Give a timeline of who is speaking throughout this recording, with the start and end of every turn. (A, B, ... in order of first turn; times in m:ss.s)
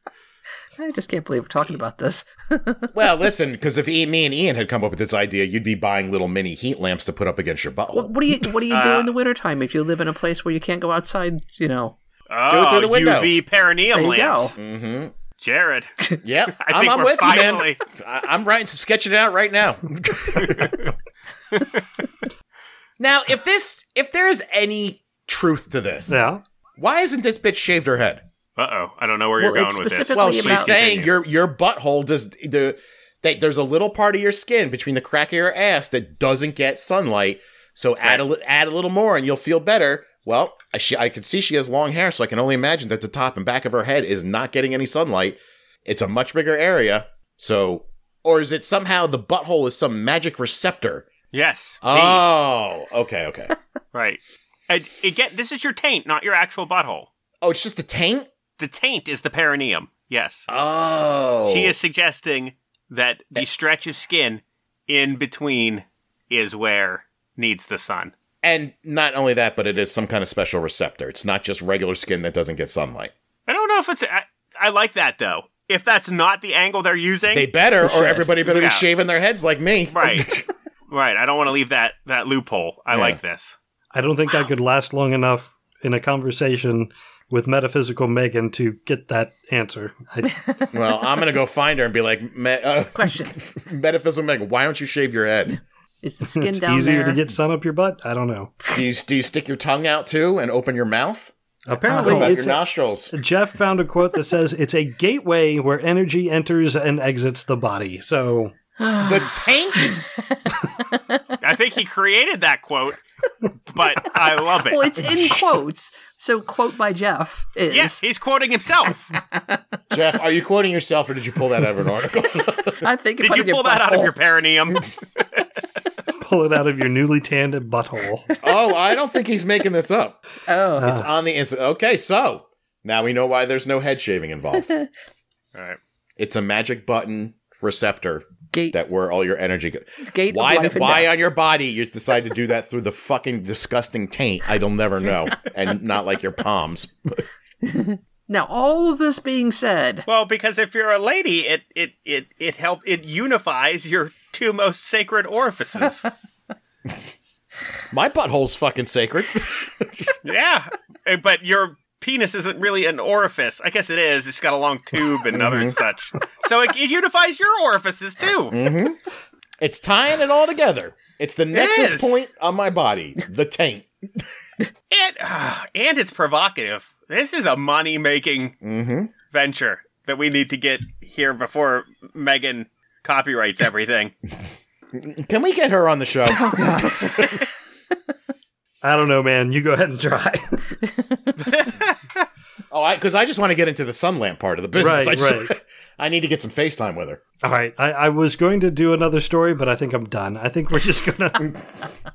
0:00.8-0:02.9 A
0:02.9-0:08.6 B
0:07.9-0:12.0 A
0:08.7-0:09.1 C
0:12.3-0:14.6 C
0:12.5-0:13.4 B
0:13.9-0:14.6 A
0:14.6-0:15.1 B
0:15.4-0:16.0 C
0:16.2-0:20.7 B
0:16.6-0:17.8 C
0:20.4-0:20.9 C
0:21.5-0:21.8 C
0:23.0-0:26.2 B
0:26.1-0:26.4 D
0:26.8-0:28.2 B
0:28.6-0:31.2 C
0:29.4-0:30.8 A
0:30.1-0:51.1 B
0:51.3-0:52.2 C
0:51.8-0:53.5 B
0:53.9-0:57.1 C
0:57.4-0:58.3 B
0:58.6-1:00.5 C
1:00.5-1:01.7 B
1:01.5-1:08.1 C
1:08.4-1:13.1 B
1:13.5-1:18.9 C
1:17.3-1:20.5 B
1:19.9-1:20.3 C
1:20.9-1:23.6 C
1:22.9-1:23.2 B
1:23.9-1:30.4 D
1:30.7-1:35.6 B
1:33.0-1:33.4 A
1:36.0-1:37.2 A
1:36.3-1:38.6 D
1:38.7-1:41.3 B
1:41.7-1:48.6 D
1:41.9-1:42.4 A
1:42.0-1:43.2 B
1:48.8-1:51.4 A
1:49.0-1:50.0 B
1:51.4-1:53.0 C
1:53.6-1:55.2 C
1:54.6-1:58.0 A
1:57.7-1:59.2 C
1:59.2-1:59.6 A
1:59.9-2:02.9 B
2:02.7-2:04.1 A
2:03.2-2:05.2 C
2:06.2-2:08.3 D
2:08.3-2:08.6 A
2:08.4-2:10.2 B
2:10.5-2:10.9 A
2:10.8-2:11.1 D
2:10.8-2:14.7 B
2:15.5-2:15.8 C
2:16.2-2:27.3 B
2:20.0-2:21.1 A
2:27.6-2:30.1 A
2:30.1-2:36.1 C
2:37.9-2:40.1 B
2:40.2-2:48.6 C
2:45.3-2:45.8 B
2:48.5-2:49.0 B
2:49.6-2:54.3 B
2:51.5-2:52.1 C
2:54.9-2:58.6 C
2:58.6-2:59.1 B
2:59.3-3:04.1 C
3:04.9-3:07.4 B
3:06.3-3:07.5 A
3:08.8-3:10.8 D
3:10.8-3:11.4 A
3:11.4-3:12.2 C
3:12.7-3:17.2 B
3:14.8-3:15.5 D
3:17.4-3:21.6 D